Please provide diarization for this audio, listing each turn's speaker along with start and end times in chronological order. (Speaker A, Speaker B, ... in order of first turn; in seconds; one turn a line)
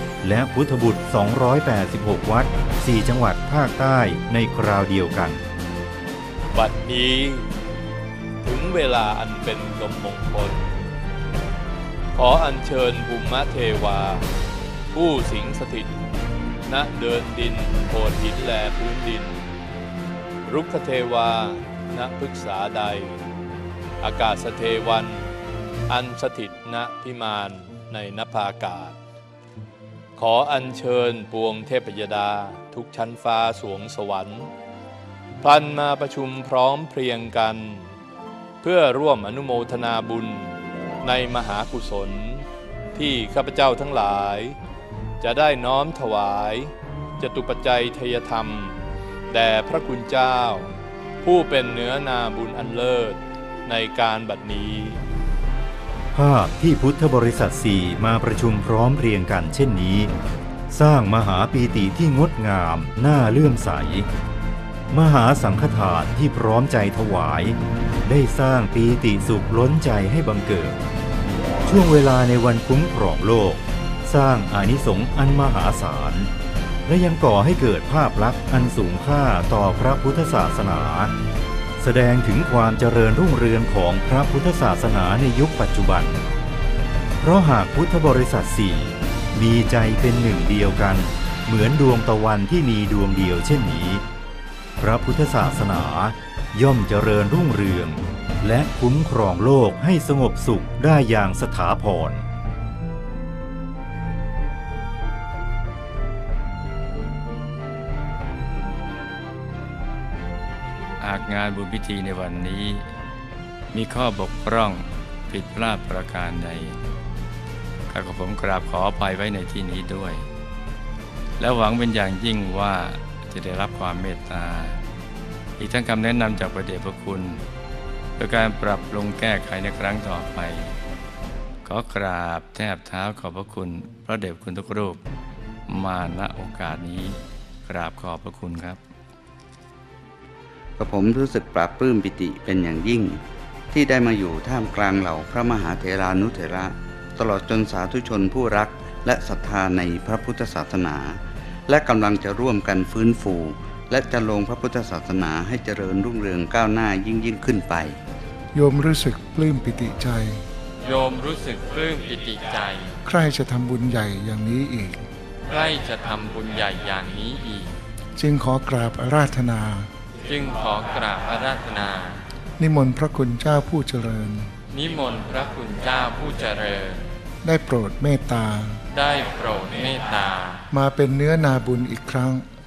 Speaker A: 0.2-5.4
Speaker B: 6.5-7.5
Speaker B: 8.4-10.7
Speaker B: 12.1-14.2
Speaker B: 14.9-15.9
Speaker B: 16.6-19.4
Speaker B: 20.4-23.2
Speaker B: 24.0-25.3
Speaker B: 25.9-29.0
Speaker B: 30.2-34.5
Speaker B: 35.4-38.0
Speaker B: 38.6-44.6
Speaker B: 45.2-48.8
Speaker B: 49.3-55.0
Speaker A: 56.1-60.1
Speaker A: 60.7-64.1
Speaker A: 64.9-70.8
Speaker A: 71.6-76.3
Speaker A: 76.8-81.1
Speaker A: 81.8-86.2
Speaker A: 87.2-94.0
Speaker A: 94.8-102.2
Speaker C: 111.0-112.8
Speaker C: 113.7-116.8
Speaker C: 117.9-120.2
Speaker C: 121.4-124.8
Speaker C: 125.6-127.4
Speaker C: 128.2-130.7
Speaker C: 131.6-135.0
Speaker C: 135.7-138.8
Speaker D: 140.8-158.0
Speaker E: 158.5-160.4
Speaker F: 160.8-163.0
Speaker E: 163.0-165.1
Speaker F: 165.5-167.8
Speaker E: 168.2-169.9
Speaker F: 170.2-172.2
Speaker E: 172.6-174.5
Speaker F: 174.7-177.1
Speaker E: 177.4-178.8
Speaker F: 178.9-180.6
Speaker E: 180.7-182.5